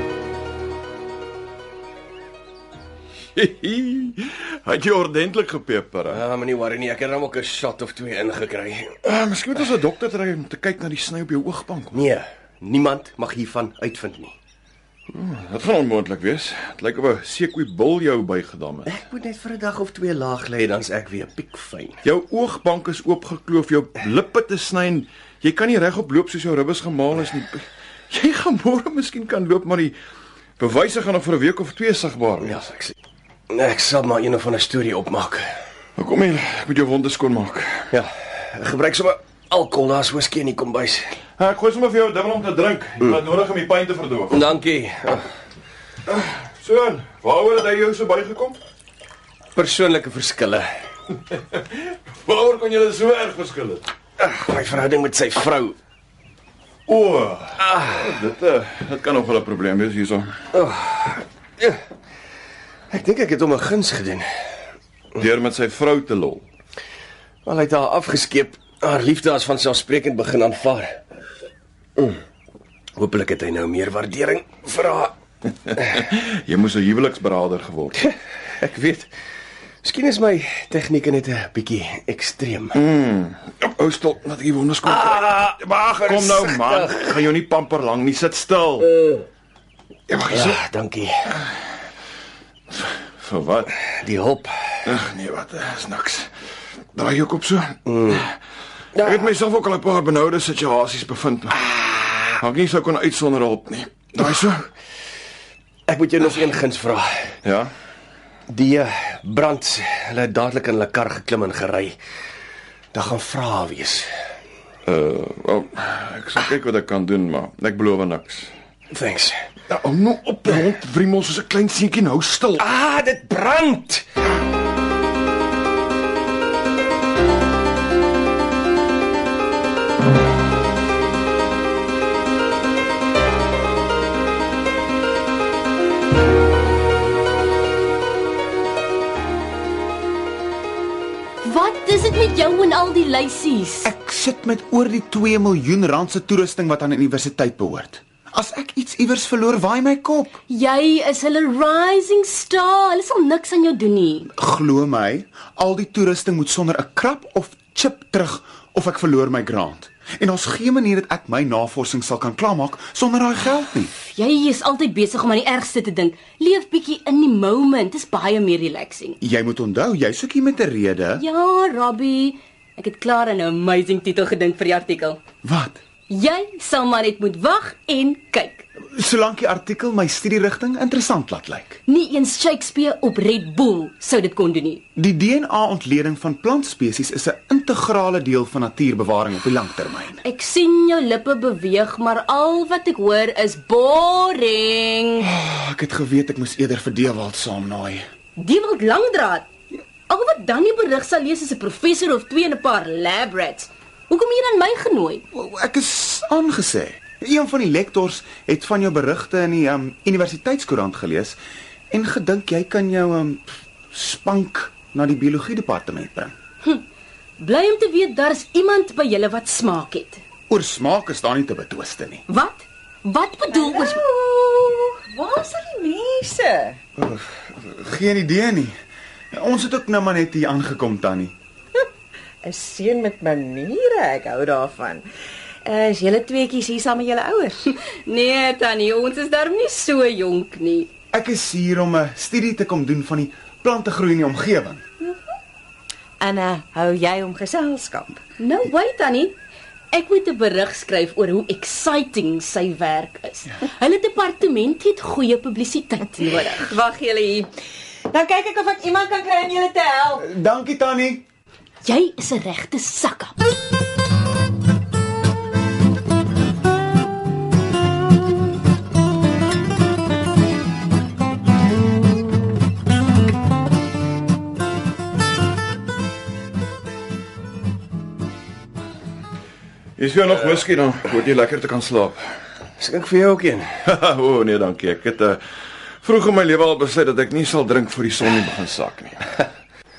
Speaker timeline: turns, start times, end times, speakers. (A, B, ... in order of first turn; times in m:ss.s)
0:03.4-0:06.2 A
0:06.1-0:08.9 B
0:09.0-0:12.1 A
0:11.9-0:14.3 B
0:15.1-0:19.0 A
0:18.9-0:22.0 B
0:22.0-0:30.0 A
0:30.6-0:32.6 A
0:32.4-0:33.0 B
0:33.5-0:35.4 B
0:36.0-0:37.9 A
0:37.9-0:41.1 B
0:41.4-0:44.5 A
0:44.3-0:45.3 B
0:46.1-0:48.6 A
0:49.6-0:50.7 B
0:51.3-0:53.9 A
0:54.2-0:55.8 B
0:56.9-1:00.3 A
0:57.6-0:58.1 B
1:00.5-1:01.8 B
1:02.9-1:04.2 B
1:05.2-1:06.5 A
1:07.5-1:11.0 B
1:13.0-1:15.1 B
1:15.7-1:18.0 A
1:18.0-1:19.1 B
1:19.8-1:22.8 B
1:22.7-1:25.5 A
1:24.9-1:27.1 B
1:26.0-1:28.9 A
1:30.1-1:30.6 A
1:30.3-1:31.1 B
1:32.7-1:33.7 A
1:33.8-1:34.8 B
1:34.8-1:36.3 A
1:37.0-1:38.3 A
1:37.9-1:38.2 B
1:39.0-1:39.3 B
1:39.0-1:44.7 A
1:45.9-1:47.3 B
1:47.4-1:47.7 A
1:48.5-1:52.0 B
1:52.9-1:54.1 B
1:54.8-1:58.5 A
1:58.9-1:59.4 B
1:59.7-2:02.6 A
2:02.6-2:04.0 B
2:21.4-2:23.9 C
2:23.8-2:30.4 D
2:30.5-2:34.3 C
2:34.3-2:43.9 D
2:44.1-2:49.2 C
2:49.2-2:51.2 D
2:51.2-2:55.2 C
2:55.4-2:55.8 D
2:56.1-2:58.7 C
2:58.9-3:01.8 D
3:01.9-3:04.8 C
3:05.0-3:10.2 D
3:10.2-3:15.3 C
3:15.2-3:18.0 D
3:18.4-3:19.5 C
3:20.1-3:25.2 C
3:25.3-3:31.4 D
3:31.9-3:36.3 D
3:37.4-3:40.2 C
3:40.5-3:42.2 D
3:42.3-3:44.0 C
3:43.5-3:46.8 E
3:47.0-3:48.8 D
3:49.3-3:51.4 D
3:52.4-3:55.1 E
3:55.6-3:57.6 E
3:57.9-4:00.9 C
4:01.1-4:04.8 D
4:06.2-4:08.2 E
4:08.4-4:09.4 C
4:09.9-4:16.7 C
4:16.2-4:17.5 E
4:18.1-4:20.2 E
4:20.2-4:21.2 D
4:21.8-4:23.3 C
4:40.0-4:42.2 A
4:42.8-4:43.7 B
4:43.9-4:45.4 A
4:46.0-4:49.4 A